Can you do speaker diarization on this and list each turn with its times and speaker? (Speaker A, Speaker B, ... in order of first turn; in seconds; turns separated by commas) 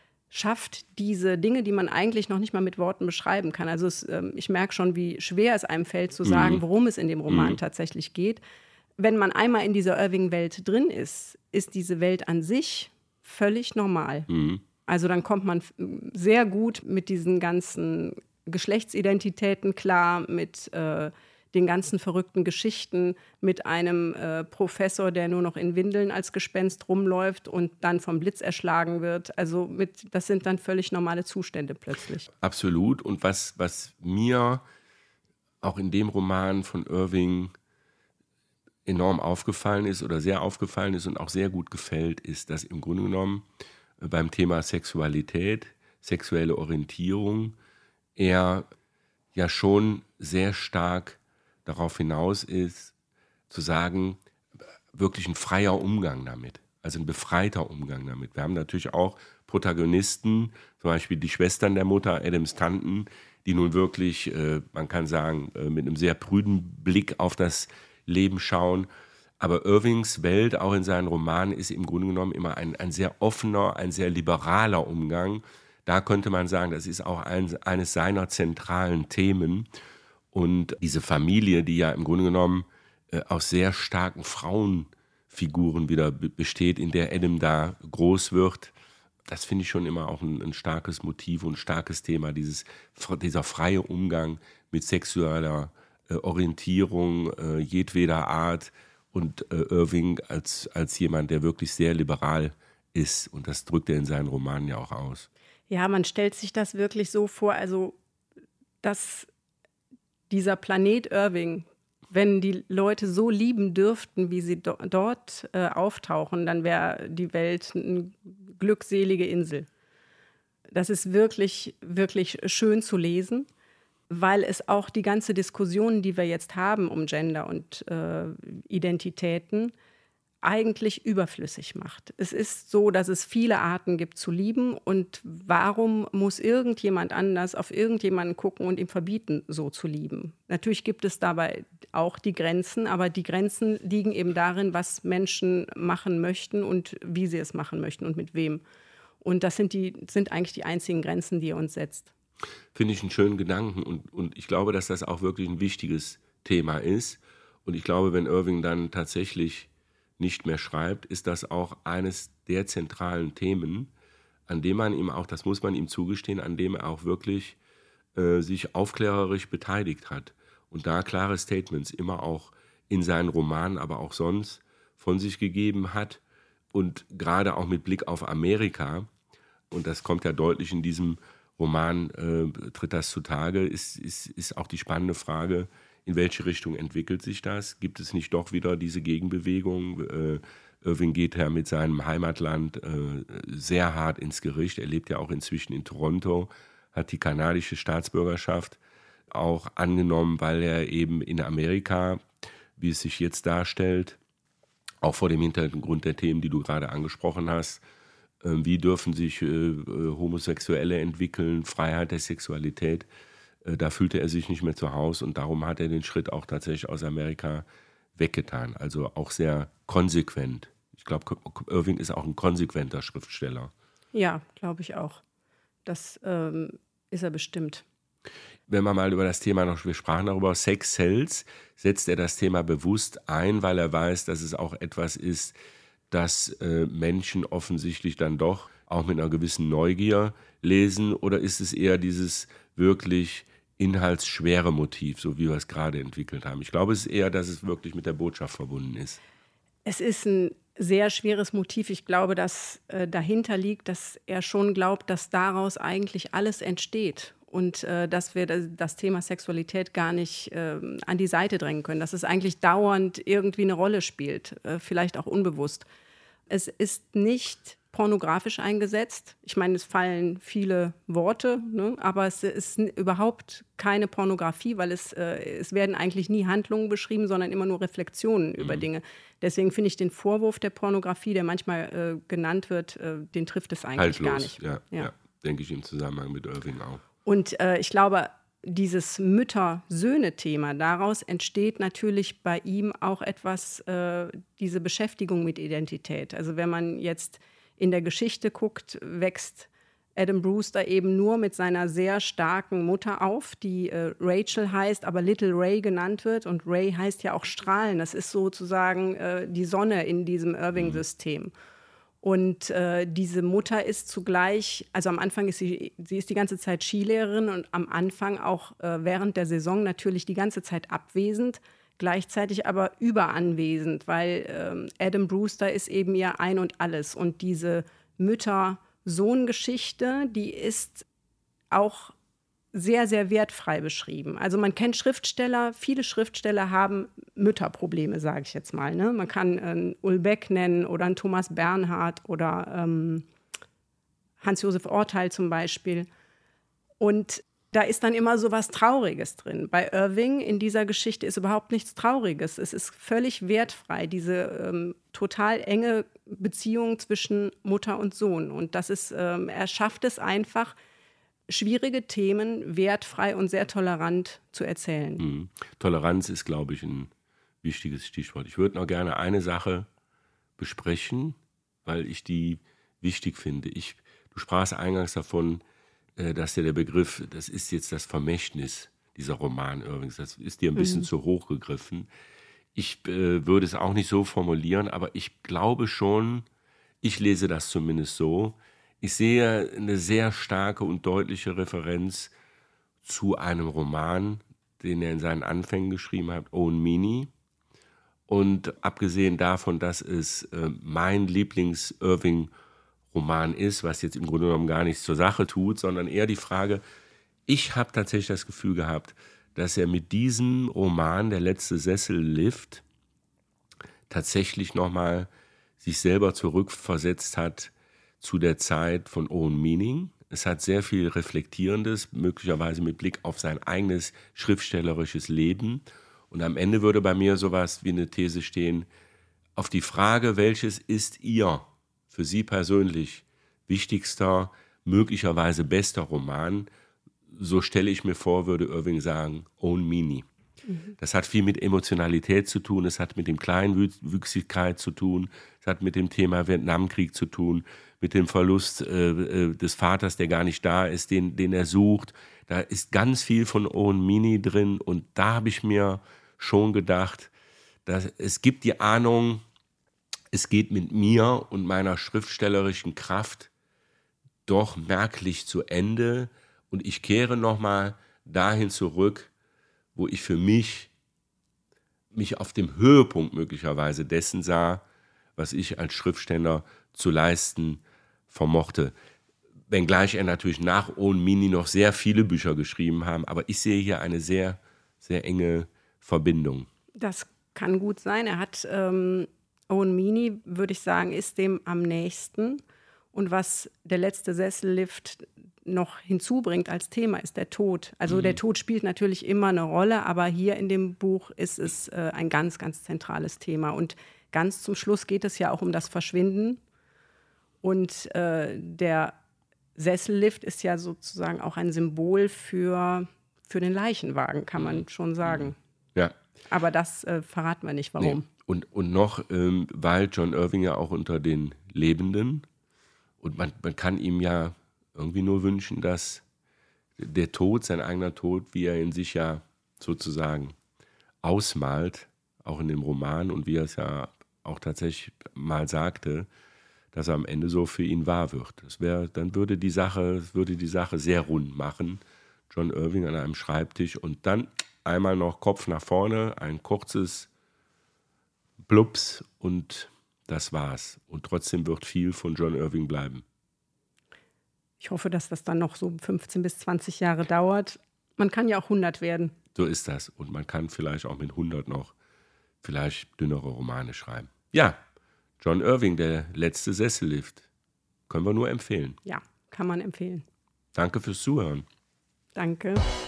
Speaker A: 0.3-8.4, Speaker B: 6.2-6.6, Speaker B: 7.3-7.6, Speaker A: 9.0-14.3, Speaker B: 14.3-14.6, Speaker A: 14.9-32.3, Speaker B: 32.4-34.6, Speaker B: 35.6-37.5, Speaker B: 38.9-43.5, Speaker B: 44.0-47.6, Speaker B: 48.2-48.7, Speaker B: 49.4-53.0, Speaker B: 53.5-54.2, Speaker B: 54.9-68.9, Speaker B: 69.4-79.7, Speaker B: 80.3-88.7, Speaker B: 89.2-105.3, Speaker A: 105.7-108.0, Speaker A: 108.8-109.3, Speaker A: 110.3-119.7, Speaker A: 120.7-123.5, Speaker A: 124.1-129.7, Speaker A: 130.4-148.6, Speaker A: 149.2-152.1, Speaker B: 152.7-163.9, Speaker B: 164.5-167.6, Speaker B: 168.2-176.2, Speaker B: 176.7-179.1, Speaker B: 179.7-198.8, Speaker B: 199.3-204.2, Speaker B: 205.0-207.8, Speaker B: 208.4-213.1, Speaker B: 213.6-223.7, Speaker A: 224.1-225.2, Speaker A: 225.9-227.8, Speaker B: 228.7-235.6, Speaker B: 236.1-249.2, Speaker A: 249.9-265.9, Speaker A: 266.5-285.1, Speaker B: 278.6-278.9, Speaker B: 284.0-287.0, Speaker A: 287.2-311.5, Speaker A: 312.2-331.1, Speaker A: 331.7-332.1, Speaker A: 332.7-343.3, Speaker A: 344.4-346.1, Speaker A: 347.0-360.8, Speaker A: 361.5-365.2, Speaker B: 365.2-367.1, Speaker B: 367.6-369.9, Speaker B: 370.6-375.6, Speaker B: 376.2-382.1, Speaker A: 380.8-381.1, Speaker B: 382.8-386.5, Speaker B: 387.0-392.3, Speaker B: 393.0-397.3, Speaker B: 398.3-402.5, Speaker B: 403.1-406.8, Speaker B: 407.5-412.8, Speaker B: 414.1-415.3, Speaker B: 415.8-428.9, Speaker B: 429.6-436.7, Speaker B: 437.3-440.3, Speaker A: 440.7-440.9, Speaker B: 441.0-457.3, Speaker B: 457.9-459.4, Speaker B: 460.3-463.5, Speaker B: 464.5-469.3, Speaker B: 469.9-470.9, Speaker B: 472.1-474.8, Speaker B: 475.4-478.9, Speaker B: 479.7-486.7, Speaker A: 487.0-492.6, Speaker A: 493.1-506.6, Speaker B: 498.1-498.4, Speaker A: 507.6-509.1, Speaker A: 509.8-515.5, Speaker A: 516.5-518.2, Speaker B: 518.0-522.5, Speaker B: 523.2-526.2, Speaker B: 527.0-530.6, Speaker B: 531.2-536.3, Speaker B: 536.9-547.3, Speaker B: 548.6-553.2, Speaker A: 554.8-559.3, Speaker B: 559.5-561.9, Speaker B: 562.6-564.8, Speaker B: 565.4-567.5, Speaker B: 568.1-569.0, Speaker A: 569.0-570.2, Speaker B: 570.8-571.7, Speaker A: 572.4-572.8